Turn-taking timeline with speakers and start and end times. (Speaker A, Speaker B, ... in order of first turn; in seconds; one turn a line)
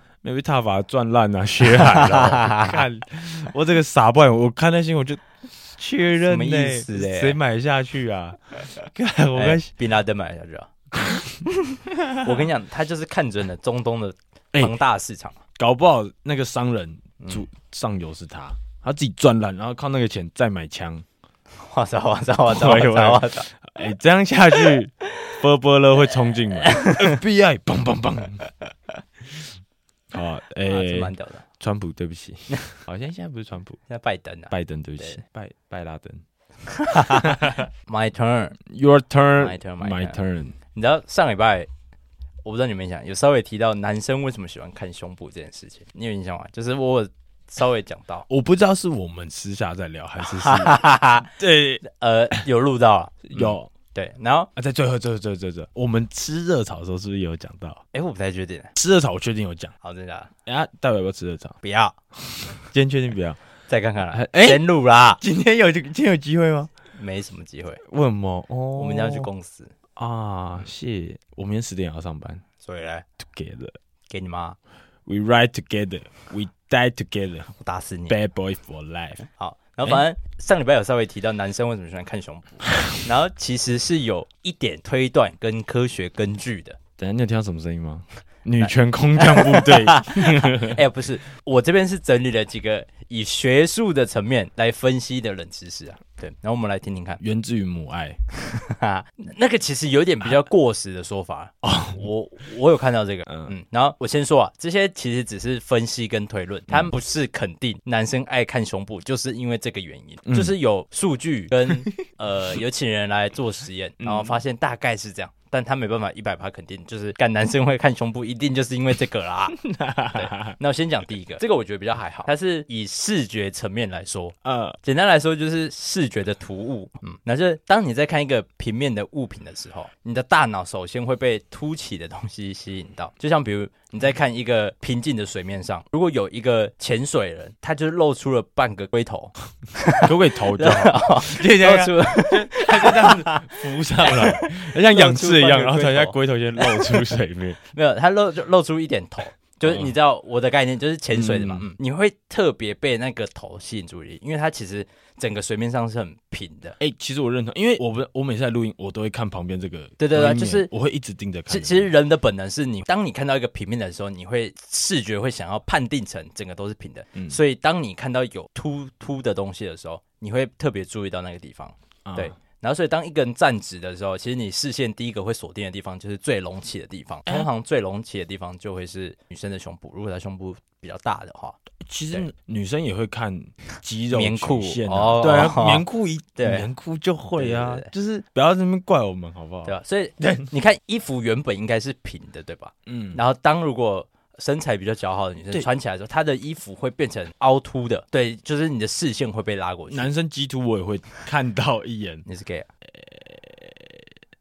Speaker A: 0.2-9.7
Speaker B: 1.6-2.8
Speaker B: 6.2-7.4
Speaker B: 9.3-10.7
Speaker A: 10.9-11.4
Speaker B: 11.6-15.4
Speaker A: 12.0-12.3
Speaker A: 15.6-21.0
Speaker B: 21.6-23.5
Speaker A: 22.5-28.5
Speaker B: 26.6-27.2
Speaker A: 30.1-33.8
Speaker B: 30.6-31.4
Speaker B: 33.9-35.2
Speaker A: 34.5-36.2
Speaker B: 36.6-38.6
Speaker A: 36.9-37.6
Speaker A: 38.7-40.6
Speaker B: 39.4-40.2
Speaker B: 40.7-41.7
Speaker B: 42.4-48.2
Speaker A: 48.3-51.8
Speaker B: 50.2-51.3
Speaker B: 51.8-54.5
Speaker A: 53.2-53.7
Speaker A: 54.5-57.8
Speaker B: 57.9-58.7
Speaker A: 58.7-59.7
Speaker B: 59.8-60.3
Speaker A: 60.4-61.6
Speaker B: 61.6-62.0
Speaker A: 62.2-63.4
Speaker B: 63.7-65.2
Speaker A: 64.1-66.7
Speaker B: 66.9-67.8
Speaker A: 67.8-69.3
Speaker B: 68.8-69.7
Speaker A: 70.0-72.4
Speaker B: 72.6-73.0
Speaker A: 73.3-73.8
Speaker B: 74.1-74.6
Speaker A: 75.0-77.5
Speaker B: 77.5-78.1
Speaker A: 78.1-79.2
Speaker B: 79.4-86.8
Speaker A: 87.0-90.8
Speaker B: 88.6-97.2
Speaker A: 97.2-98.2
Speaker B: 98.4-119.5
Speaker A: 101.6-102.0
Speaker A: 103.3-103.5
Speaker A: 110.2-110.5
Speaker A: 114.0-114.4
Speaker A: 119.5-120.5
Speaker B: 120.1-143.5
Speaker A: 124.4-124.8
Speaker A: 140.0-147.6
Speaker B: 144.0-147.2
Speaker B: 147.7-156.8
Speaker A: 149.6-149.9
Speaker A: 151.1-151.7
Speaker A: 156.8-161.9
Speaker B: 160.0-160.7
Speaker B: 161.5-181.6
Speaker A: 172.0-172.3
Speaker A: 181.8-190.5
Speaker B: 184.1-185.8
Speaker B: 186.4-186.7
Speaker B: 187.4-187.9
Speaker B: 189.6-200.1
Speaker A: 192.8-193.2
Speaker A: 199.9-202.2
Speaker B: 202.3-202.7
Speaker A: 202.9-204.0